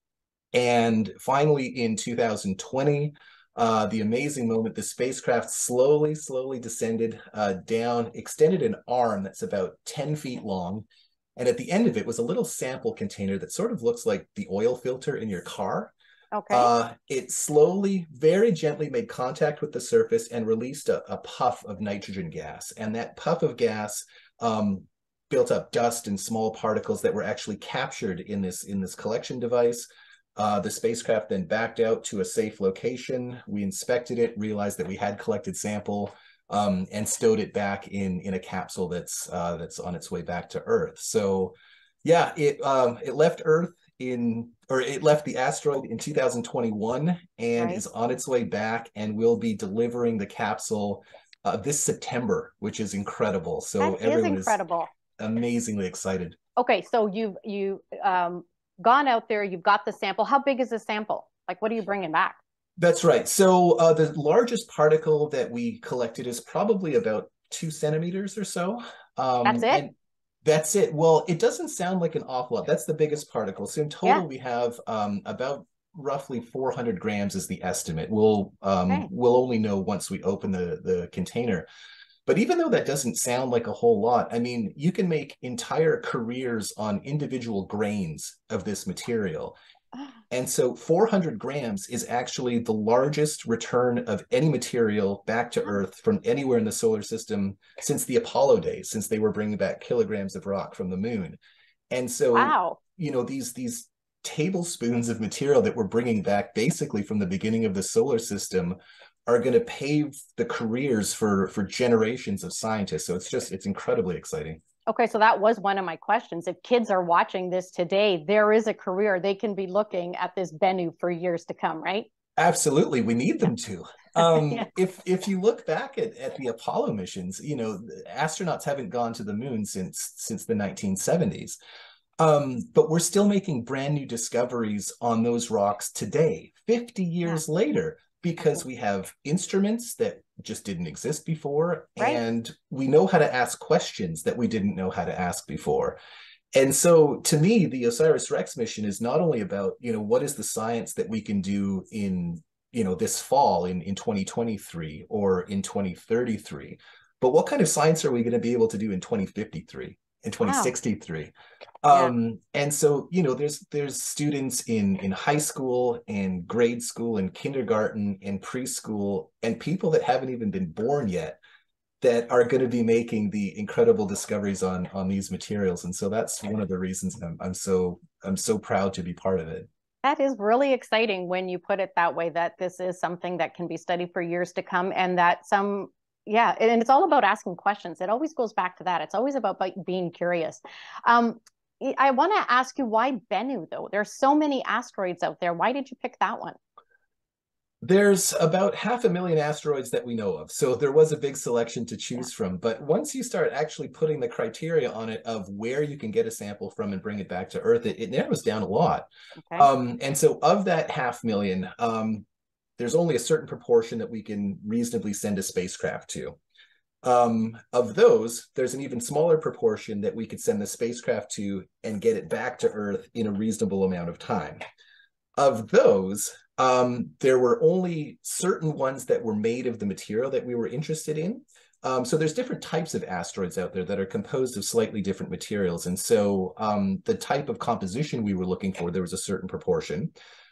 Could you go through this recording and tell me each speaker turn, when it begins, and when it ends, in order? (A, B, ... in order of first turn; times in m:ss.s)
0:00.5-0:10.9 A
0:11.4-0:15.9 A
0:16.3-0:16.7 B
0:16.5-0:54.6 A
0:53.8-0:54.9 B
0:55.2-0:56.4 A
0:56.6-1:02.4 B
1:02.8-1:09.9 A
1:09.4-1:09.8 B
1:10.4-1:21.7 A
1:22.2-1:29.6 A
1:30.3-1:41.4 A
1:41.9-1:54.6 A
1:42.4-1:42.8 B
1:54.9-2:02.1 B
2:02.4-2:11.6 A
2:12.2-2:26.0 A
2:26.5-2:51.4 A
2:40.4-2:40.7 B
2:52.0-2:59.7 A
3:00.0-3:16.6 B
3:17.8-3:32.2 A
3:32.8-3:36.4 A
3:37.0-3:44.6 A
3:45.4-4:00.1 A